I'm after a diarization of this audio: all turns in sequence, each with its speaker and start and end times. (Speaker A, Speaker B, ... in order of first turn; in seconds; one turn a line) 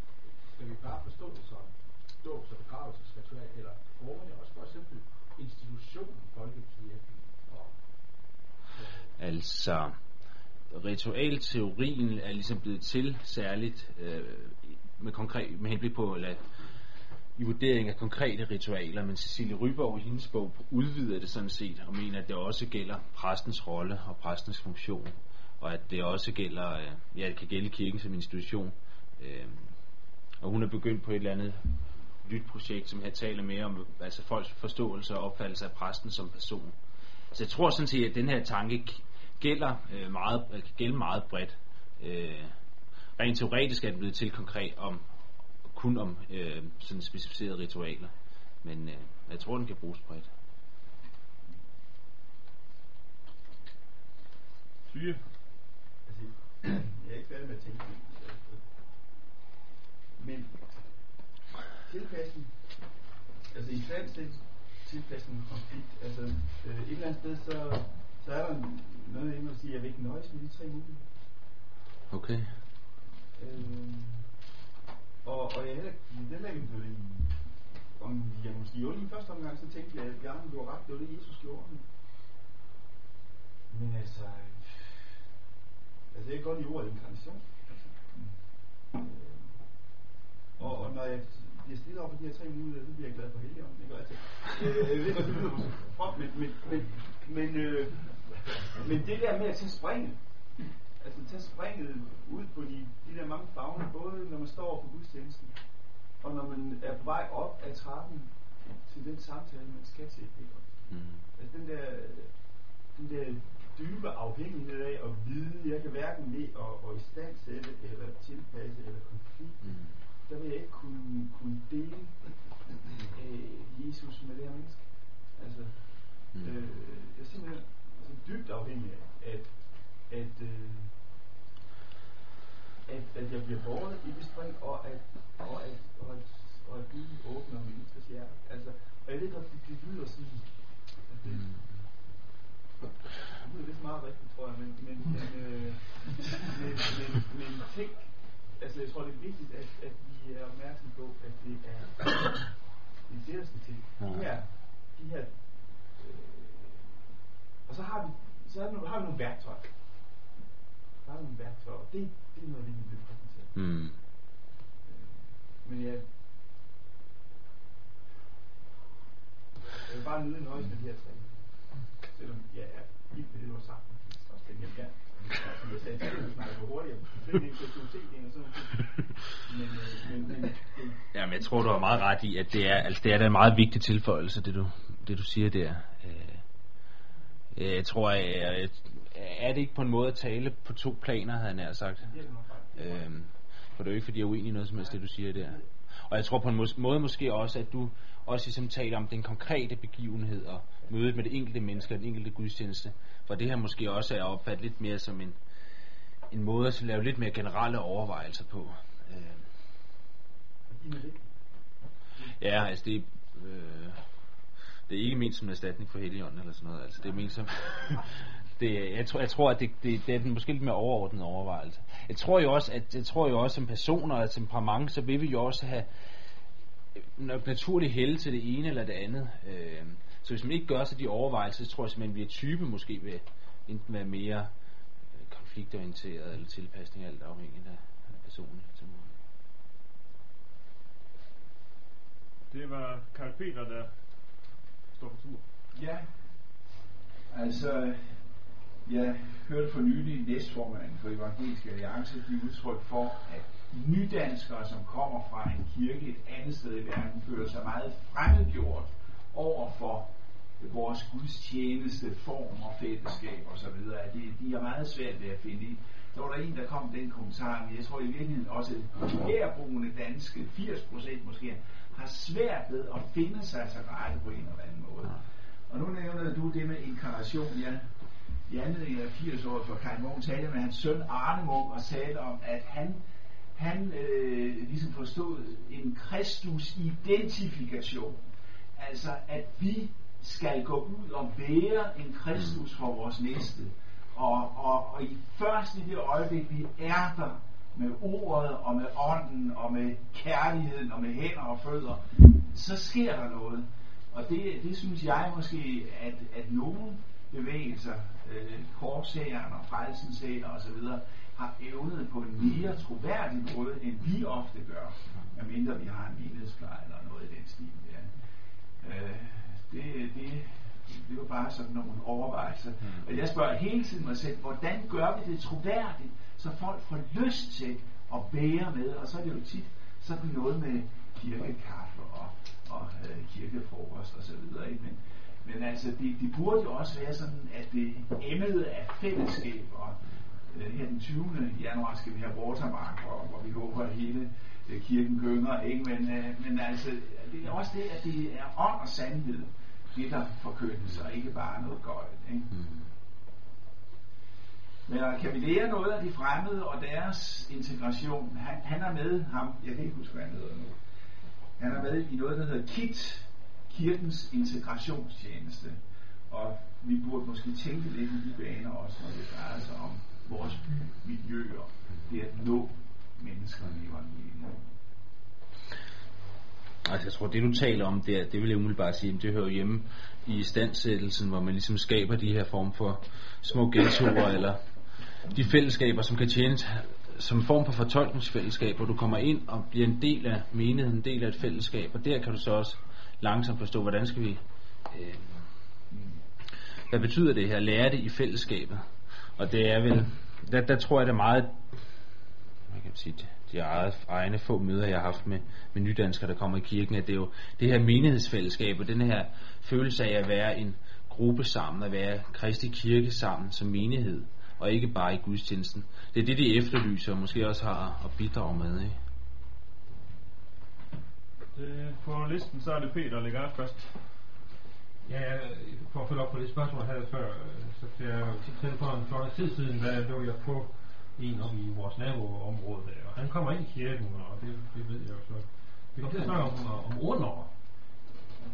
Speaker A: 0.5-7.6
Speaker B: 9.2-9.9
Speaker B: 10.7-16.4
Speaker B: 17.4-29.7
Speaker B: 30.4-36.7
Speaker B: 37.3-42.5
Speaker B: 43.2-45.0
Speaker B: 45.7-48.1
Speaker B: 48.6-50.3
Speaker C: 54.9-55.2
Speaker D: 56.0-59.0
Speaker D: 60.1-71.1
Speaker B: 72.1-72.5
Speaker D: 73.3-74.3
Speaker D: 75.2-81.9
Speaker D: 83.7-85.0
Speaker D: 86.1-88.0
Speaker D: 88.8-89.6
Speaker D: 90.6-131.1
Speaker B: 110.9-111.2
Speaker B: 119.6-119.9
Speaker D: 132.8-141.7
Speaker D: 143.2-156.9
Speaker D: 157.6-159.8
Speaker D: 161.0-164.1
Speaker B: 163.5-164.0
Speaker D: 164.8-166.1
Speaker D: 169.8-181.0
Speaker B: 181.1-186.4
Speaker B: 187.5-192.1
Speaker D: 192.0-193.0
Speaker B: 192.8-205.3
Speaker B: 206.3-209.4
Speaker D: 210.7-211.3
Speaker B: 212.4-214.0
Speaker B: 214.9-225.9
Speaker B: 227.2-234.5
Speaker B: 235.2-239.1
Speaker C: 242.5-243.9
Speaker C: 244.9-245.4
Speaker E: 245.7-246.1
Speaker E: 247.3-277.9
Speaker E: 278.4-288.2
Speaker E: 288.7-318.1
Speaker E: 318.8-352.5
Speaker B: 352.5-352.8
Speaker E: 354.9-360.8
Speaker E: 361.6-374.7
Speaker B: 376.8-384.6
Speaker B: 385.3-395.4
Speaker B: 396.9-401.6
Speaker B: 402.7-419.0
Speaker C: 421.5-424.2
Speaker F: 425.0-437.6
Speaker C: 436.0-436.3